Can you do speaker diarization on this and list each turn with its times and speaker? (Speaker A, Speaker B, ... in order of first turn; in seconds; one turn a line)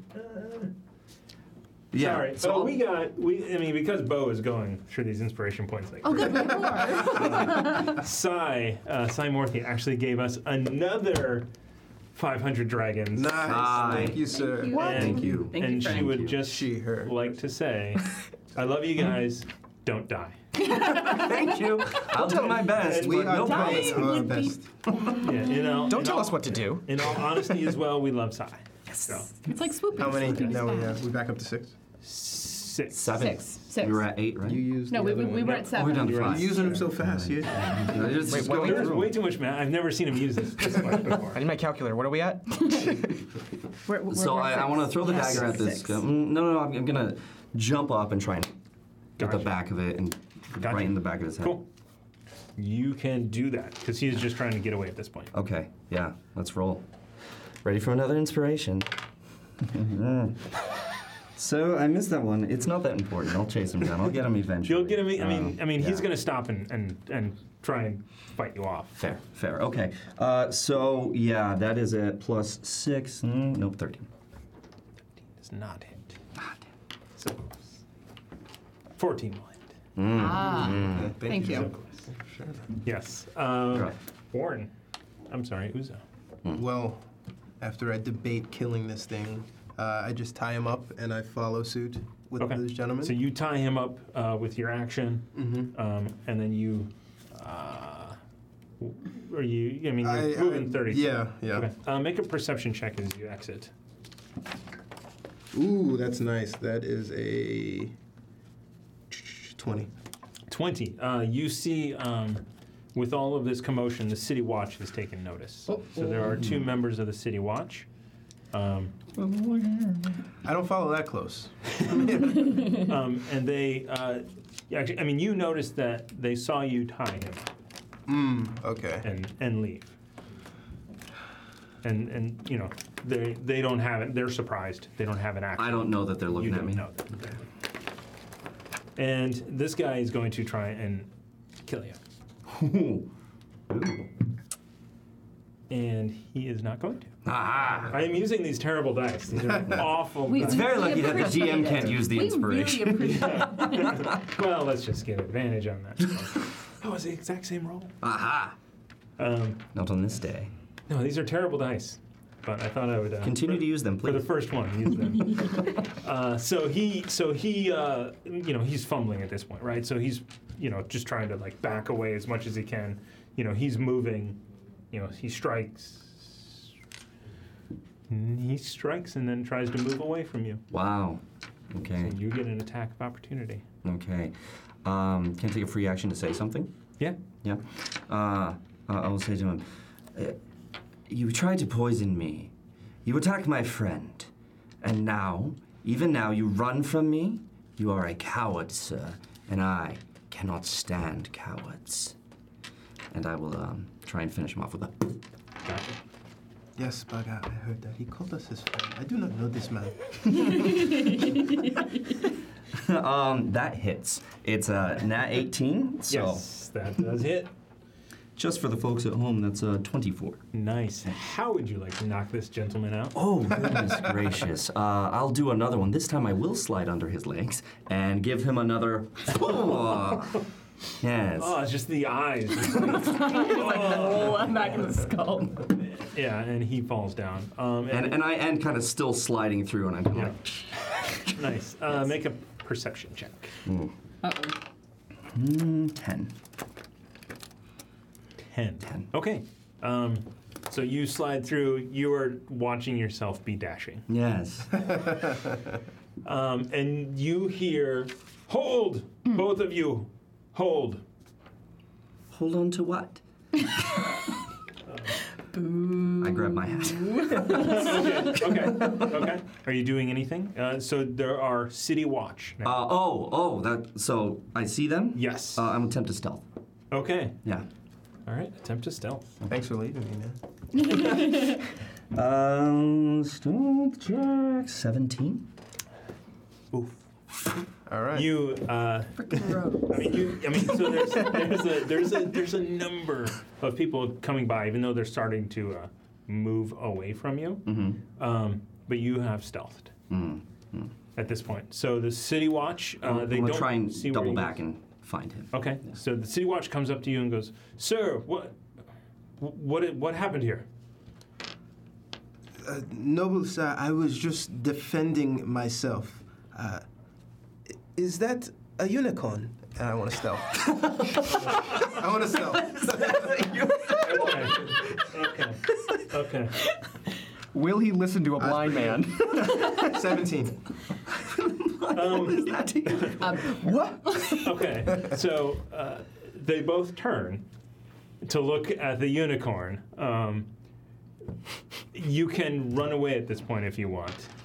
Speaker A: 1.9-2.8
Speaker B: 1.9-11.5
Speaker C: 6.0-8.0
Speaker B: 12.1-14.0
Speaker D: 13.1-15.4
Speaker A: 13.4-16.4
Speaker C: 14.2-16.1
Speaker B: 14.7-20.4
Speaker D: 16.3-17.2
Speaker A: 20.6-24.3
Speaker C: 20.8-21.3
Speaker E: 22.2-22.6
Speaker B: 22.7-23.4
Speaker D: 22.8-24.7
Speaker C: 23.3-26.0
Speaker B: 25.1-29.3
Speaker E: 25.9-27.6
Speaker A: 28.9-29.2
Speaker C: 29.4-31.0
Speaker D: 29.9-31.8
Speaker B: 32.0-33.2
Speaker A: 32.9-34.7
Speaker C: 33.0-34.1
Speaker D: 34.4-38.1
Speaker C: 34.9-36.8
Speaker B: 35.4-36.9
Speaker A: 35.6-39.1
Speaker E: 38.3-39.0
Speaker B: 38.4-41.4
Speaker E: 41.1-43.2
Speaker C: 43.9-46.0
Speaker A: 44.1-48.5
Speaker B: 49.2-49.5
Speaker A: 49.2-51.6
Speaker B: 50.6-51.6
Speaker B: 52.6-55.3
Speaker A: 55.3-56.9
Speaker A: 57.6-59.0
Speaker A: 59.6-66.1
Speaker B: 64.7-69.0
Speaker A: 69.0-74.1
Speaker B: 75.3-76.2
Speaker B: 77.2-77.7
Speaker B: 79.0-79.7
Speaker A: 80.0-81.2
Speaker C: 80.1-81.7
Speaker D: 80.4-82.7
Speaker B: 81.3-82.1
Speaker B: 82.8-84.7
Speaker B: 85.3-86.0
Speaker D: 86.5-87.0
Speaker D: 87.6-93.2
Speaker B: 92.4-98.2
Speaker D: 95.3-95.7
Speaker B: 98.8-103.7
Speaker D: 100.0-101.7
Speaker D: 105.5-107.9
Speaker D: 109.1-109.9
Speaker B: 110.5-117.9
Speaker A: 116.3-116.7
Speaker B: 118.5-118.9
Speaker A: 119.2-119.8
Speaker D: 120.4-122.8
Speaker B: 122.0-127.5
Speaker D: 128.1-129.1
Speaker B: 129.0-129.9
Speaker B: 131.8-137.5
Speaker A: 135.6-136.9
Speaker B: 139.0-141.1
Speaker B: 141.7-142.0
Speaker A: 142.5-143.1
Speaker A: 143.7-144.1
Speaker B: 145.7-147.1
Speaker A: 147.2-148.0
Speaker B: 147.9-151.0
Speaker A: 149.6-154.2
Speaker C: 150.2-154.0
Speaker B: 153.0-157.9
Speaker A: 158.0-158.6
Speaker B: 159.2-159.6
Speaker A: 159.7-160.5
Speaker B: 160.9-176.6
Speaker A: 163.2-164.3
Speaker B: 178.1-180.6
Speaker A: 180.7-182.2
Speaker B: 182.0-183.6
Speaker A: 183.8-186.8
Speaker A: 187.4-190.4
Speaker A: 191.1-192.5
Speaker A: 193.0-194.3
Speaker A: 194.8-202.2
Speaker A: 203.1-205.2
Speaker B: 205.7-205.9
Speaker D: 206.8-211.0
Speaker A: 212.7-216.5
Speaker B: 216.1-217.5
Speaker A: 218.3-220.4
Speaker B: 220.5-223.2
Speaker A: 223.2-230.5
Speaker A: 231.0-231.6
Speaker B: 231.4-234.5
Speaker C: 232.8-235.7
Speaker B: 235.7-238.2
Speaker A: 237.9-240.4
Speaker B: 241.2-243.6
Speaker A: 243.7-243.9
Speaker C: 244.2-244.5
Speaker A: 245.3-246.3
Speaker B: 248.5-254.1
Speaker A: 254.1-254.9
Speaker B: 256.2-261.0
Speaker A: 262.3-264.0
Speaker B: 264.9-265.1
Speaker C: 265.5-267.9
Speaker A: 266.2-269.1
Speaker B: 267.4-272.8
Speaker A: 272.6-276.4
Speaker B: 275.1-275.7
Speaker B: 276.9-277.4
Speaker B: 278.2-279.3
Speaker D: 279.5-280.4
Speaker A: 280.8-285.5
Speaker C: 281.1-281.5
Speaker B: 286.7-287.0
Speaker D: 287.9-288.3
Speaker B: 288.1-299.9
Speaker C: 289.2-290.1
Speaker A: 297.6-298.0
Speaker A: 300.1-300.9
Speaker B: 301.1-304.5
Speaker A: 303.0-305.6
Speaker B: 305.5-308.6
Speaker B: 309.4-310.6
Speaker D: 312.6-316.9
Speaker D: 317.9-323.6
Speaker A: 320.6-321.8
Speaker A: 322.5-324.9
Speaker B: 324.0-326.6
Speaker E: 327.5-330.0
Speaker D: 328.4-330.6
Speaker A: 331.2-333.3
Speaker B: 331.9-333.3
Speaker C: 333.2-334.4
Speaker E: 333.4-334.6
Speaker B: 334.4-337.4
Speaker B: 338.2-340.5
Speaker B: 341.9-344.3